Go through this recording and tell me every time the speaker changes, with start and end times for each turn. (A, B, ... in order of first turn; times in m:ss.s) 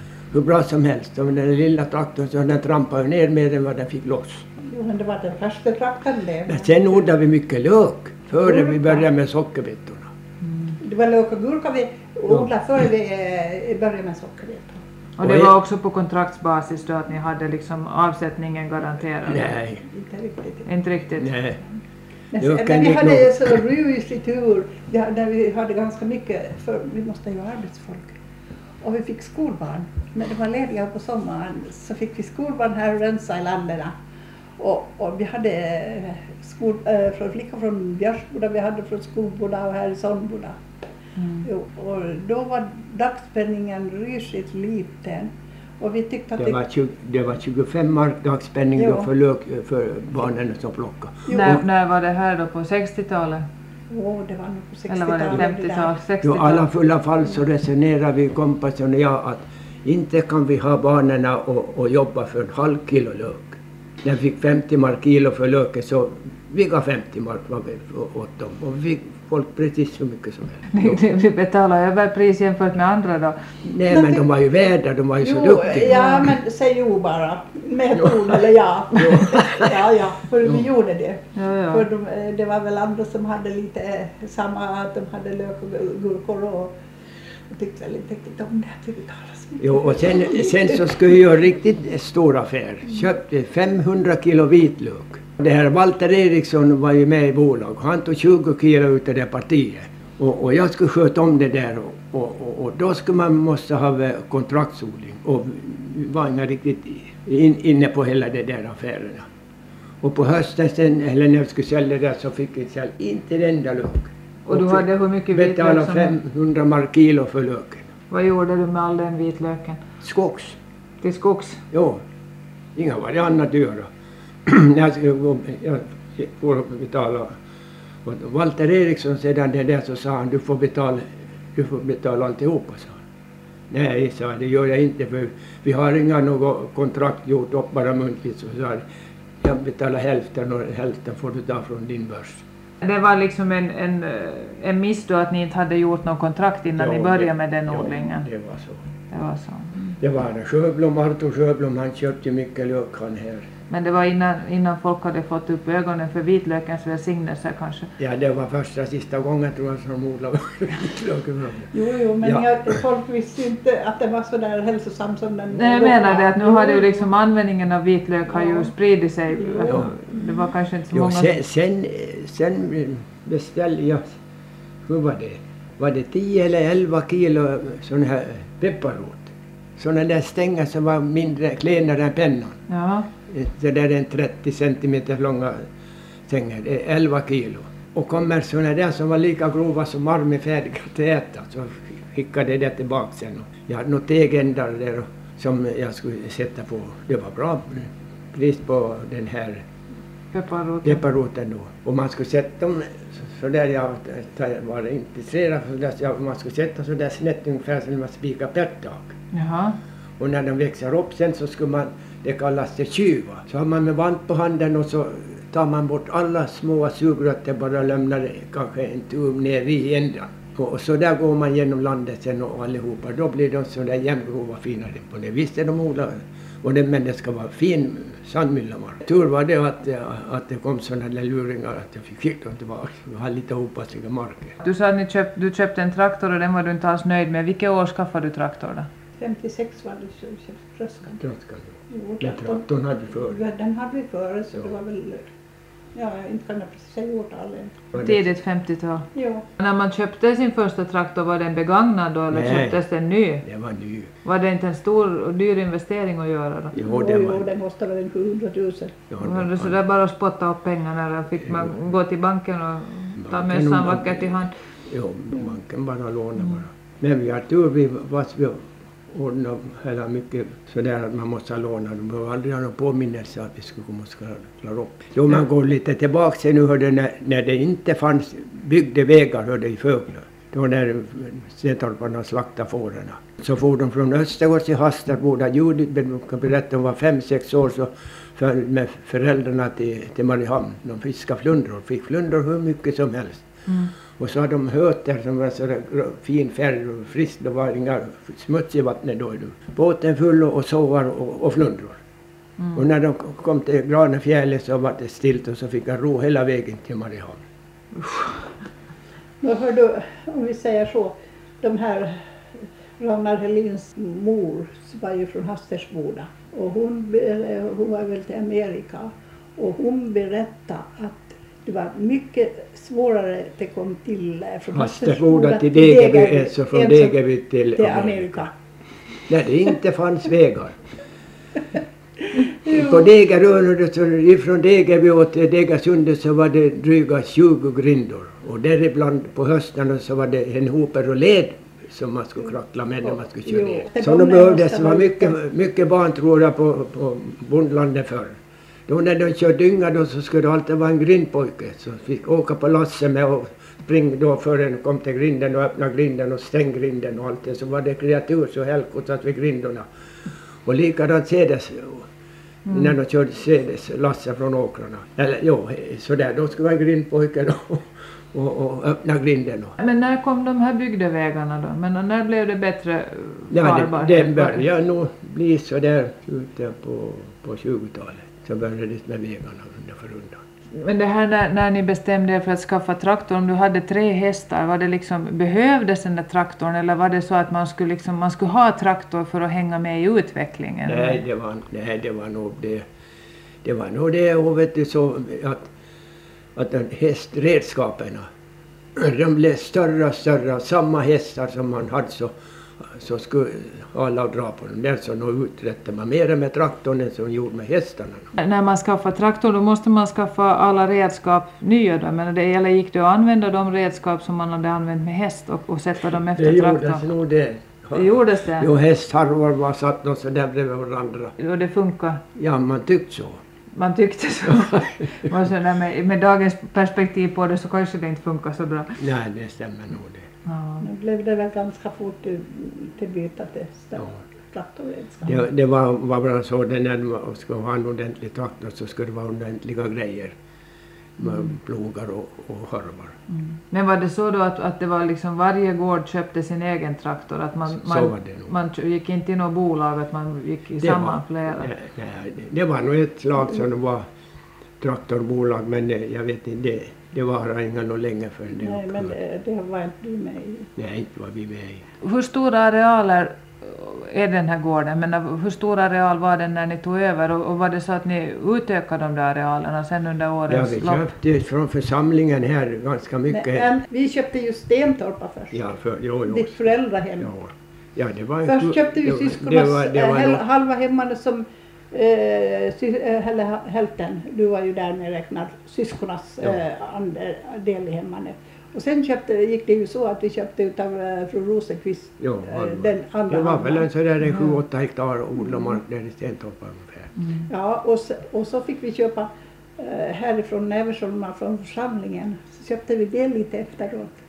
0:00.3-0:04.5 A
0:04.6-0:07.0 B
0:06.5-0:10.1 A
0:08.4-0:09.1 B
0:10.8-0:14.8 B
0:15.2-0:19.5 C
0:15.2-0:15.5 A
0:19.2-0:19.8 A
0:19.9-0:20.7 B
0:20.6-0:21.3 C
0:21.2-0:21.6 A
0:22.3-0:28.1 B
0:22.4-0:23.6 A
0:28.8-0:34.0 B
0:34.6-0:40.6 B
0:41.2-0:41.4 C
0:41.4-0:46.6 B
0:46.4-0:51.6 A
0:48.8-0:49.1 B
0:51.3-0:51.6 B
0:51.3-0:53.4 C
0:53.9-0:56.0 B
0:54.9-0:56.7 C
0:56.2-1:11.0 A
1:10.7-1:13.5 C
1:13.6-1:16.2 A
1:13.9-1:14.2 B
1:15.2-1:26.8 B
1:15.9-1:16.2 C
1:18.0-1:18.4 A
1:19.0-1:19.8 A
1:21.4-1:21.8 C
1:27.5-1:31.0 B
1:29.6-1:49.2 A
1:50.0-1:57.9 A
1:54.4-1:56.2 C
1:58.1-1:59.8 C
2:00.0-2:00.6 A
2:01.0-2:01.6 C
2:01.7-2:02.0 A
2:02.8-2:03.9 A
2:04.4-2:07.3 A
2:08.0-2:13.0 A
2:13.7-2:18.8 A
2:19.4-2:22.4 A
2:22.8-2:28.2 C
2:26.8-2:28.8 A
2:29.1-2:30.0 C
2:30.0-2:33.5 A
2:33.7-2:37.9 C
2:38.0-2:42.8 A
2:41.7-2:47.1 B
2:45.5-2:51.3 C
2:48.3-2:48.7 B
2:49.3-2:50.5 B
2:50.9-2:54.1 A
2:54.8-3:02.6 A
3:02.7-3:03.1 C
3:03.3-3:05.6 A
3:06.3-3:19.6 A
3:20.3-3:21.0 C
3:20.8-3:29.1 A
3:29.3-3:29.8 C
3:30.2-3:54.6 A
3:54.6-3:58.9 C
3:59.2-4:01.2 B
4:01.2-4:03.4 A
4:01.9-4:02.6 B
4:03.2-4:05.3 B
4:05.9-4:07.8 B
4:07.9-4:08.2 A
4:08.0-4:09.1 C
4:09.1-4:09.5 B
4:09.6-4:13.4 C
4:12.3-4:12.8 A
4:13.4-4:14.1 A
4:14.2-4:16.7 C
4:16.7-4:17.4 A
4:16.8-4:19.0 B
4:19.1-4:19.7 A
4:19.2-4:24.5 C
4:23.2-4:24.3 A
4:24.9-4:53.5 A
4:53.7-4:53.9 C
4:54.2-5:02.0 A
5:02.7-5:07.4 A
5:08.0-5:08.4 C
5:09.4-5:27.2 B
5:24.7-5:28.5 A
5:27.7-5:28.5 B
5:29.3-5:30.8 A
5:32.3-5:32.8 B
5:32.6-5:59.8 A
5:43.4-5:45.4 B
6:00.6-6:02.1 A
6:02.6-6:02.9 C
6:02.7-6:09.8 A
6:09.8-6:14.6 C
6:13.5-6:20.4 A
6:20.7-6:31.2 C
6:30.8-6:32.8 A
6:33.6-6:35.7 A
6:36.6-6:38.2 A
6:39.0-6:48.3 A
6:48.4-6:57.0 C
6:56.4-7:01.3 A
6:57.9-6:58.7 C
7:01.4-7:02.2 C
7:02.3-7:03.4 A
7:03.7-7:09.0 C
7:04.5-7:05.1 A
7:09.0-7:10.2 A
7:10.4-7:10.8 C
7:10.8-7:15.4 B
7:15.2-7:20.4 A
7:21.2-7:23.2 A
7:23.7-7:31.7 C
7:27.7-7:28.5 A
7:30.8-7:34.0 A
7:34.8-7:39.2 A
7:38.6-7:40.7 B
7:40.8-7:41.8 A
7:42.0-7:51.1 C
7:50.5-7:53.7 A
7:53.3-7:55.6 B
7:55.5-8:00.4 A
7:56.3-7:57.3 B
7:58.4-8:13.9 B
8:12.2-8:17.1 A
8:17.5-8:24.2 B